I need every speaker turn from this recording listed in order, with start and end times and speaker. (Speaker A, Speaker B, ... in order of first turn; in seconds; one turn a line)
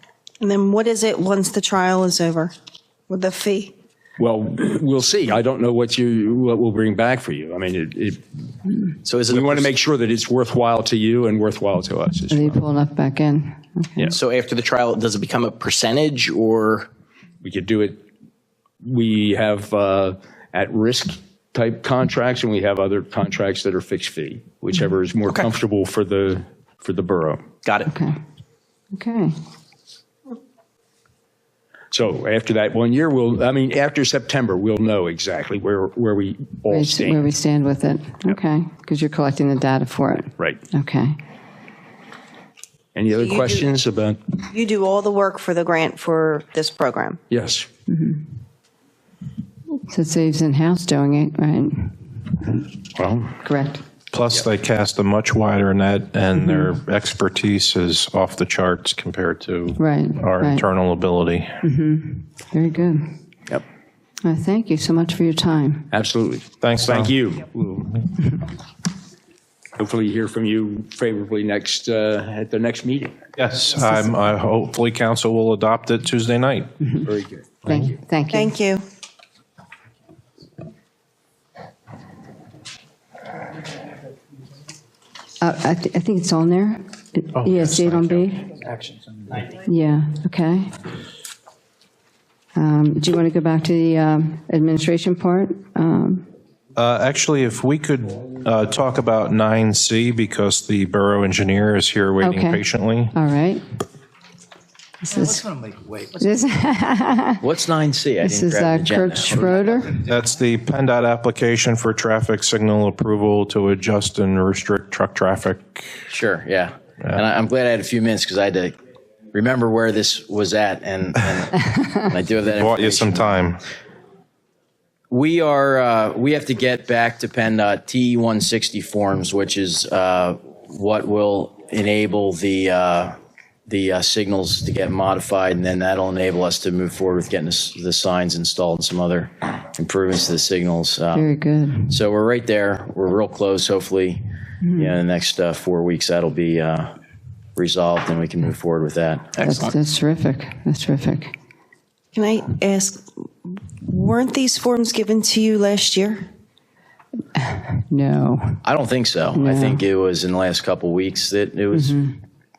Speaker A: 0.4-2.5
Speaker A: 3.1-3.7
Speaker B: 4.2-8.2
Speaker C: 9.0-9.7
Speaker B: 9.3-12.6
Speaker D: 12.3-14.1
Speaker C: 14.1-16.9
Speaker B: 17.4-18.0
Speaker B: 18.8-27.5
Speaker D: 27.9-28.2
Speaker D: 28.9-29.4
Speaker B: 31.9-37.3
Speaker D: 36.7-41.2
Speaker B: 42.9-44.4
Speaker A: 43.1-43.7
Speaker A: 44.4-47.2
Speaker B: 47.3-47.7
Speaker D: 47.9-48.2
Speaker D: 49.9-52.2
Speaker B: 53.0-53.4
Speaker D: 53.4-53.8
Speaker E: 54.1-61.6
Speaker D: 59.8-60.6
Speaker D: 61.6-63.1
Speaker D: 64.2-65.9
Speaker B: 65.9-68.0
Speaker E: 66.6-67.1
Speaker B: 69.8-73.2
Speaker E: 73.4-76.7
Speaker B: 77.0-77.9
Speaker D: 77.7-78.5
Speaker A: 78.3-78.8
Speaker D: 85.4-88.6
Speaker E: 87.4-88.1
Speaker D: 89.5-90.7
Speaker D: 92.5-96.2
Speaker E: 96.8-103.1
Speaker D: 102.2-103.6
Speaker D: 105.0-105.5
Speaker D: 106.1-107.4
Speaker C: 107.4-109.4
Speaker D: 108.2-110.0
Speaker E: 110.0-116.0
Speaker C: 116.1-118.8
Speaker C: 119.3-123.3
Speaker E: 122.5-123.6
Speaker C: 125.1-133.2
Speaker C: 133.7-141.3
Speaker D: 141.1-141.9
Speaker C: 141.9-144.2
Speaker D: 144.6-145.0
Speaker C: 144.7-146.9
Speaker C: 147.6-149.7
Speaker D: 149.3-151.3
Speaker A: 152.1-153.1
Speaker A: 153.8-156.2
Speaker D: 157.3-158.6
Speaker C: 158.6-162.0
Speaker D: 159.3-159.8
Speaker D: 161.7-162.2